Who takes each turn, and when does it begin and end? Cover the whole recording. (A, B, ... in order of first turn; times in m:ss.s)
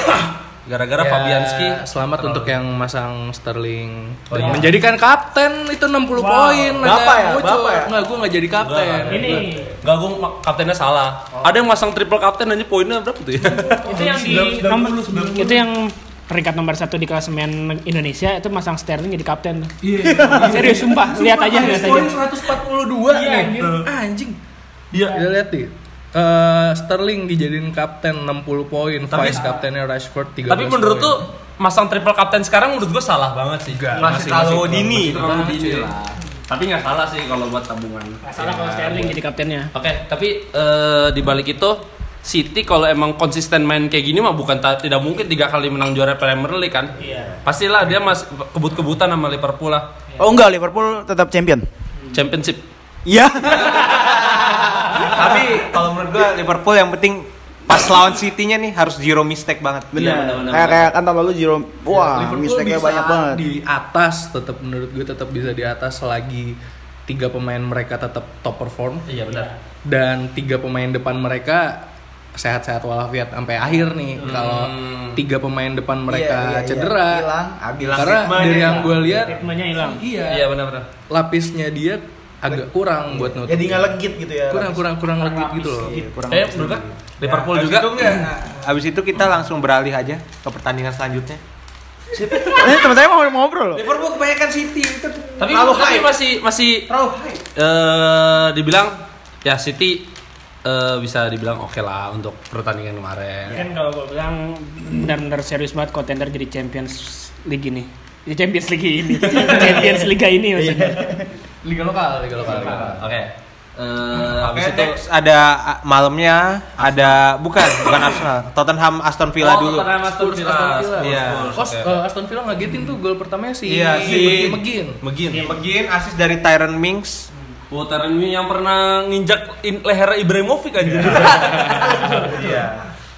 0:00.6-0:02.6 A
0:01.0-0:09.8 B
0:04.3-0:04.7 A
0:06.2-0:06.8 C
0:06.8-0:07.9 D
0:06.8-0:07.1 E
0:08.6-0:13.9 A
0:09.1-0:09.7 C
0:13.6-0:15.2 B
0:13.8-0:22.2 C
0:14.0-0:15.4 E
0:14.0-0:15.5 D
0:19.8-0:24.4 B
0:20.0-0:20.8 D
0:21.8-0:22.2 A
0:23.0-0:23.9 A
0:23.3-0:23.8 C
0:24.9-0:25.2 A
0:25.0-0:31.2 B
0:29.1-0:29.4 A
0:29.2-0:29.6 C
0:30.5-0:39.1 A
0:33.7-0:35.9 B
0:33.9-0:35.2 E
0:38.2-0:39.7 C
0:38.4-0:39.0 B
0:39.7-0:46.9 A
0:47.0-0:47.4 C
0:47.4-0:49.9 A
0:50.2-0:51.6 D
0:52.1-0:52.6 A
0:53.0-0:55.1 D
0:55.0-1:00.2 E
0:59.9-1:03.4 D
0:59.9-1:00.9 A
1:01.9-1:06.6 B
1:07.1-1:09.1 B
1:09.1-1:09.5 A
1:09.3-1:09.5 C
1:09.8-1:17.3 B
1:14.2-1:15.2 A
1:16.1-1:19.2 D
1:17.8-1:19.3 E
1:18.0-1:20.5 B
1:19.1-1:20.0 C
1:20.3-1:20.9 A
1:21.0-1:24.0 B
1:23.1-1:24.9 D
1:24.5-1:26.0 B
1:25.2-1:26.0 C
1:25.8-1:26.9 D
1:26.3-1:28.2 A
1:27.2-1:31.4 E
1:32.1-1:32.9 A
1:32.5-1:33.9 D
1:33.7-1:36.1 E
1:35.4-1:36.9 A
1:36.9-1:37.4 E
1:37.5-1:40.1 A
1:40.6-1:43.6 A
1:43.5-1:51.2 C
1:49.2-1:49.9 A
1:50.6-1:51.3 D
1:51.6-1:53.1 B
1:52.5-1:52.8 C
1:52.6-1:55.0 A
1:54.2-1:59.9 E
1:56.8-1:57.2 A
1:59.4-2:01.9 A
2:00.1-2:05.0 B
2:01.0-2:01.6 E
2:03.6-2:04.6 E
2:05.0-2:05.5 A
2:05.3-2:05.6 C
2:05.3-2:07.3 E
2:07.7-2:12.1 A
2:10.8-2:12.9 E
2:11.4-2:11.9 B
2:11.8-2:12.2 D
2:11.9-2:12.3 C